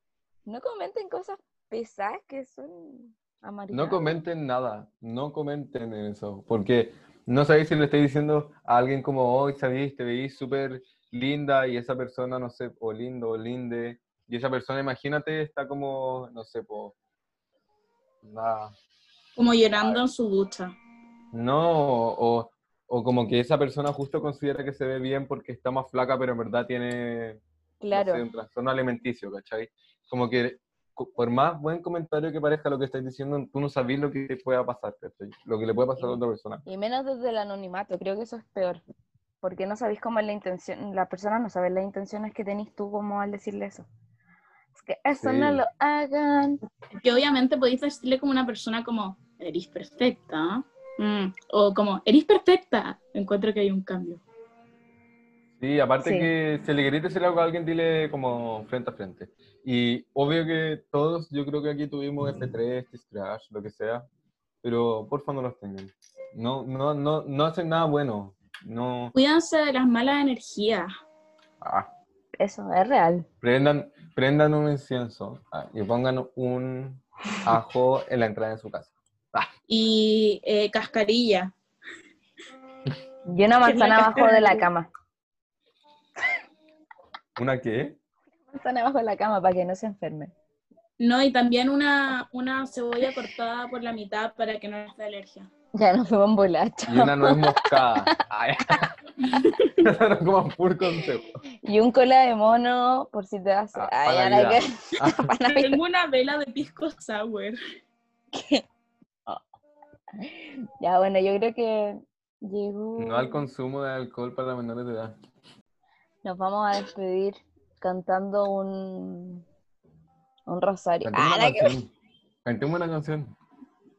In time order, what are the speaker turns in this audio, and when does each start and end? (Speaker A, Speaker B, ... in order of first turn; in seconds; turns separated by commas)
Speaker A: 0.5-4.1, Speaker B: 3.7-16.9, Speaker B: 18.2-18.7, Speaker C: 19.4-20.7, Speaker B: 19.7-20.1, Speaker B: 21.3-36.6, Speaker A: 27.8-28.2, Speaker A: 36.0-38.8, Speaker A: 39.4-43.9, Speaker A: 44.8-46.6, Speaker B: 45.2-45.6, Speaker C: 46.9-54.2, Speaker B: 55.6-64.0, Speaker A: 56.0-56.3, Speaker B: 64.6-69.1, Speaker C: 69.1-70.9, Speaker B: 71.6-71.9, Speaker A: 72.4-73.3, Speaker B: 73.4-79.5, Speaker C: 79.7-81.5, Speaker A: 83.3-84.9, Speaker C: 83.6-84.7, Speaker B: 87.4-88.0, Speaker A: 88.5-90.3, Speaker C: 91.0-95.5, Speaker A: 95.7-97.8, Speaker B: 96.9-98.9, Speaker C: 99.4-99.8, Speaker B: 99.8-101.3, Speaker A: 101.6-105.8, Speaker B: 103.8-105.3, Speaker C: 105.5-107.6, Speaker A: 108.3-108.6, Speaker A: 110.2-113.5, Speaker B: 113.0-115.2, Speaker A: 116.2-119.4, Speaker A: 120.5-121.8, Speaker B: 121.0-121.9, Speaker B: 122.5-123.3